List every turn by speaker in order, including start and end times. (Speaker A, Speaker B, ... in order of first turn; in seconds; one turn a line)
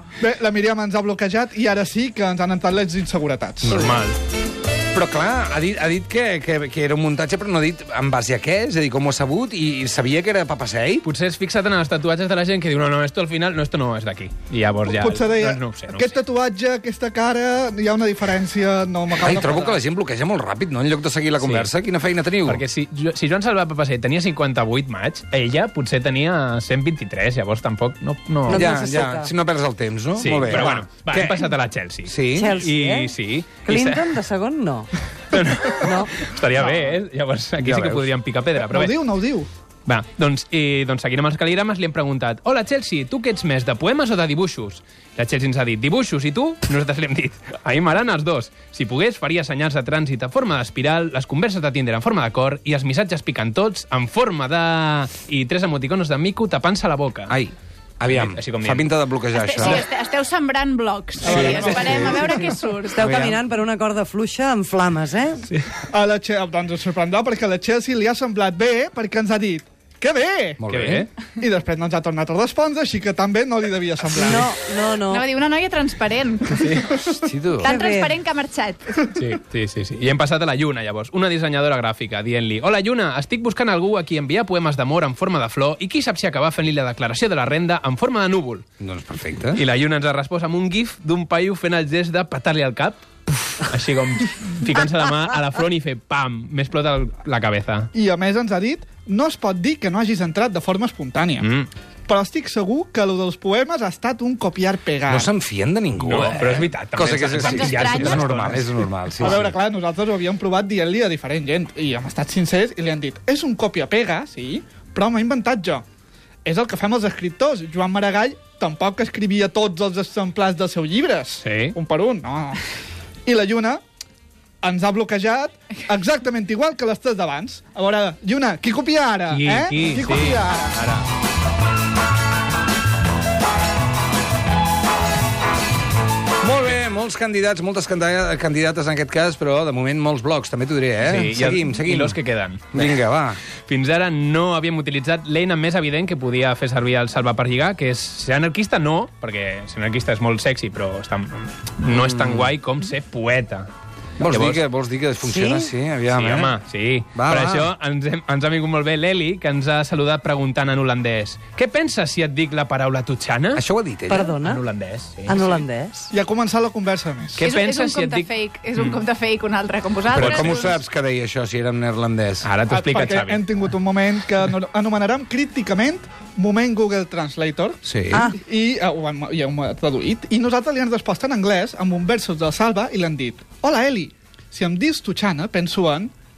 Speaker A: 0.2-3.8
Speaker B: 3.6-4.0
Speaker C: 3.6-4.2
Speaker B: 4.9-11.1
Speaker C: 11.0-16.1
Speaker A: 14.8-19.8
Speaker B: 19.2-22.6
Speaker C: 21.4-21.7
Speaker C: 22.4-28.7
Speaker D: 28.5-29.3
Speaker B: 28.5-32.6
Speaker C: 30.2-34.1
Speaker D: 32.4-34.9
Speaker C: 35.3-39.0
Speaker D: 35.8-36.1
Speaker A: 36.6-37.0
Speaker B: 37.6-38.1
Speaker A: 38.6-39.5
Speaker C: 39.9-57.3
Speaker B: 57.3-59.9
Speaker C: 58.1-58.9
Speaker E: 59.3-63.0
Speaker A: 61.2-62.5
Speaker B: 61.2-62.3
Speaker D: 62.9-65.5
Speaker B: 63.0-63.4
Speaker A: 65.9-70.6
Speaker B: 70.6-71.1
Speaker C: 70.7-71.1
Speaker A: 71.4-74.6
Speaker D: 74.1-75.3
Speaker E: 75.1-79.0
Speaker C: 76.5-77.0
Speaker B: 77.2-77.8
Speaker D: 77.7-78.2
Speaker C: 79.2-88.6
Speaker B: 88.8-89.6
Speaker C: 89.5-97.9
Speaker A: 97.9-101.5
Speaker C: 101.4-101.7
Speaker A: 102.1-105.3
Speaker B: 105.1-109.5
Speaker C: 106.0-109.4
Speaker E: 107.4-108.3
Speaker A: 109.2-115.8
Speaker A: 116.5-122.7
Speaker C: 121.4-121.8
Speaker A: 123.3-123.8
Speaker A: 124.6-130.8
Speaker C: 129.3-131.1
Speaker B: 136.4-142.2
Speaker C: 141.0-153.7
Speaker B: 142.7-143.4
Speaker B: 151.9-152.5
Speaker B: 154.2-156.6
Speaker C: 154.2-154.6
Speaker D: 155.2-155.7
Speaker C: 156.1-163.6
Speaker B: 157.2-157.7
Speaker B: 163.6-164.3
Speaker D: 164.1-164.6
Speaker C: 164.4-165.6
Speaker D: 165.3-166.1
Speaker A: 166.1-167.4
Speaker C: 167.4-169.0
Speaker E: 167.4-170.8
Speaker B: 170.1-172.5
Speaker C: 170.2-170.6
Speaker C: 172.4-173.7
Speaker A: 172.7-177.8
Speaker B: 177.8-178.3
Speaker D: 178.1-178.4
Speaker A: 178.3-186.1